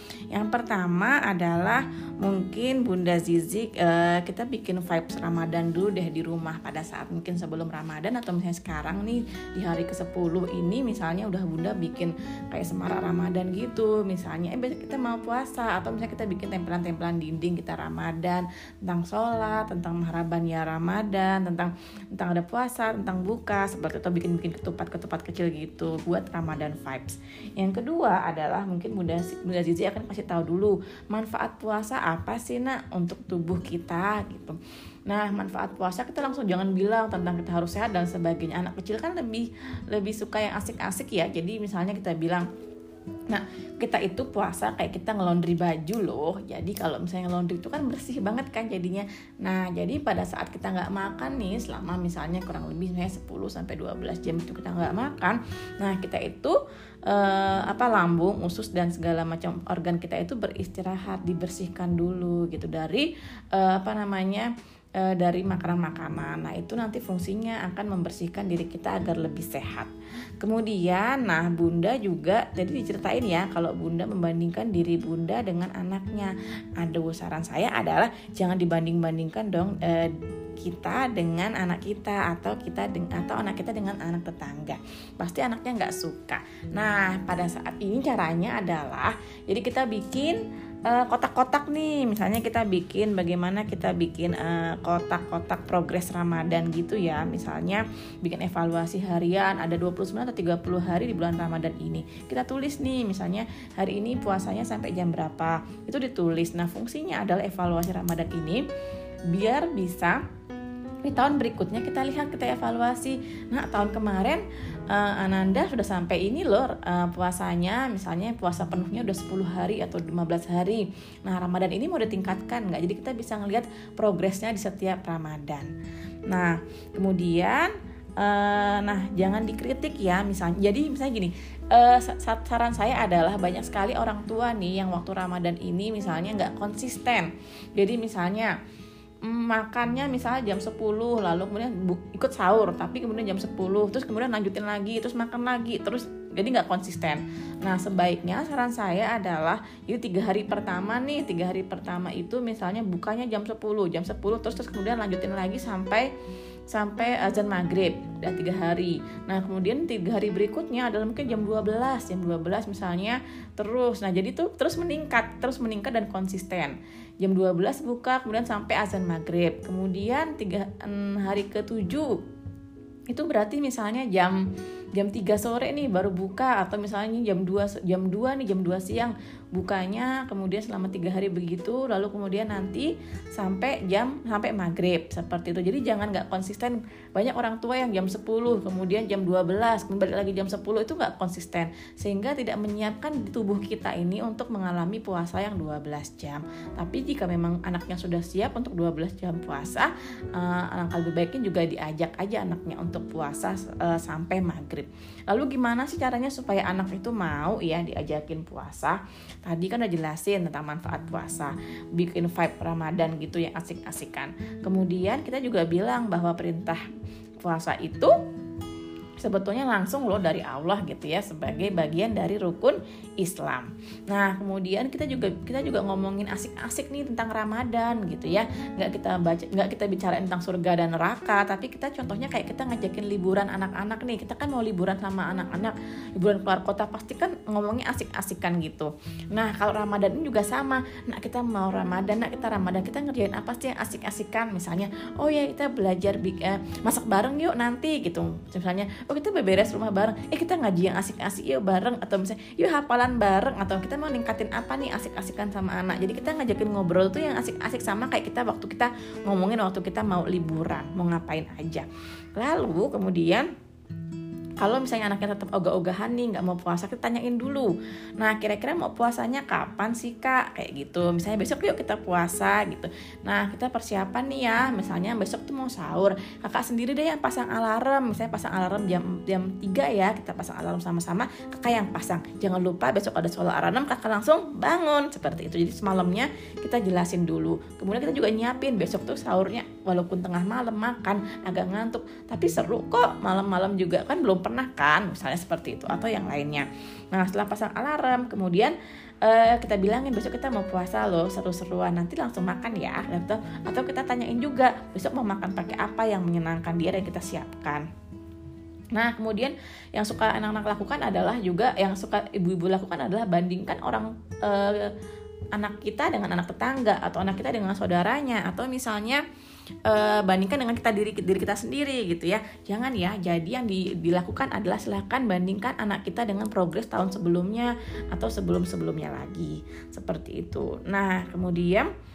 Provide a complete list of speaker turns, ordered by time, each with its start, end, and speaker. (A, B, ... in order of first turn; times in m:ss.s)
0:00.3-0:42.5 A
0:43.3-1:48.6 A
1:49.3-1:50.2 A
1:51.0-2:05.7 A
2:06.3-2:18.5 A
2:19.2-2:36.1 A
2:36.7-2:52.1 A
2:53.1-2:54.4 A
2:54.9-3:36.8 A
3:37.4-3:38.1 A
3:39.2-4:23.5 A
4:24.6-5:07.8 A
5:08.9-5:14.9 A
5:15.5-5:19.2 A
5:19.8-5:31.9 A